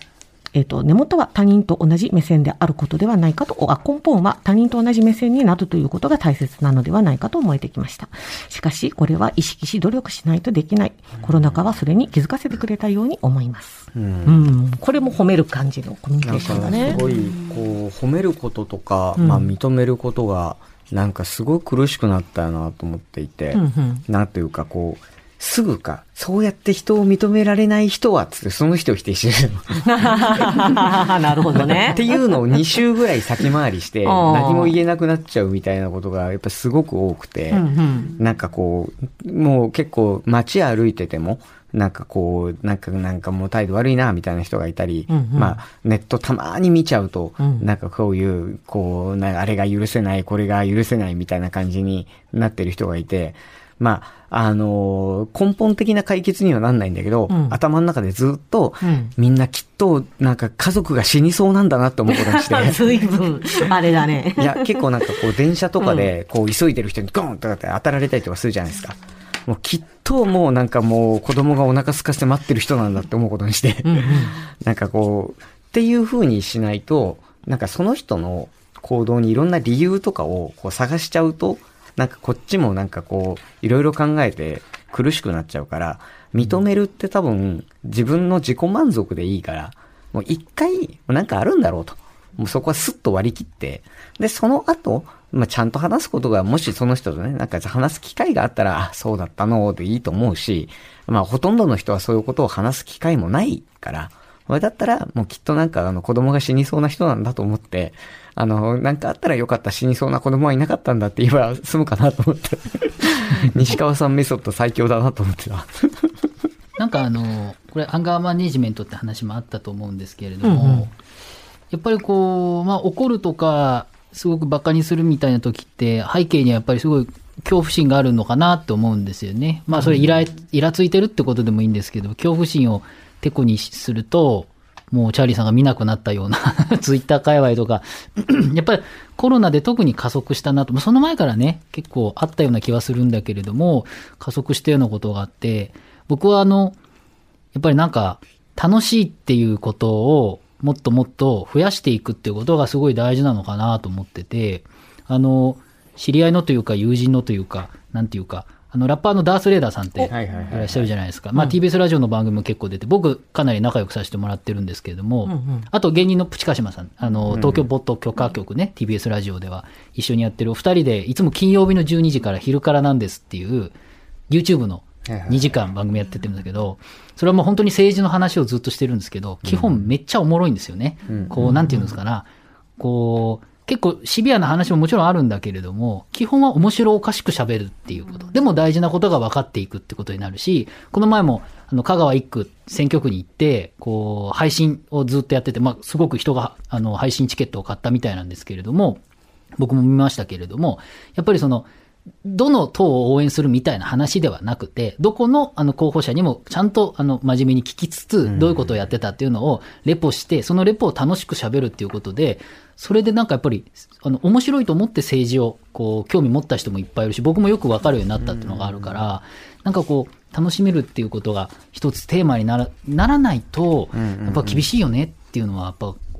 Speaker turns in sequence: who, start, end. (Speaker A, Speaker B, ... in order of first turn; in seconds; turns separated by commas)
Speaker A: 0.5-17.0, Speaker B: 11.2-11.6, Speaker B: 13.9-14.5, Speaker B: 16.2-30.7, Speaker A: 19.2-19.4, Speaker A: 23.5-24.0, Speaker A: 29.8-32.0, Speaker B: 31.4-116.2, Speaker A: 34.0-34.8, Speaker A: 37.5-38.1, Speaker A: 45.1-45.5, Speaker A: 47.4-47.6, Speaker A: 57.3-57.5, Speaker A: 58.8-59.1, Speaker A: 62.1-64.8, Speaker A: 65.8-66.1, Speaker A: 73.8-74.3, Speaker C: 116.8-120.9, Speaker A: 120.5-120.8, Speaker C: 121.7-146.8, Speaker C: 147.5-173.7, Speaker B: 160.0-160.9, Speaker A: 165.3-165.6, Speaker B: 167.3-167.7, Speaker C: 174.3-199.0, Speaker B: 175.1-175.6, Speaker B: 179.4-179.9, Speaker B: 181.1-181.8, Speaker C: 199.6-201.7, Speaker C: 202.2-226.0, Speaker B: 208.2-208.8, Speaker B: 218.2-219.0, Speaker B: 223.9-224.7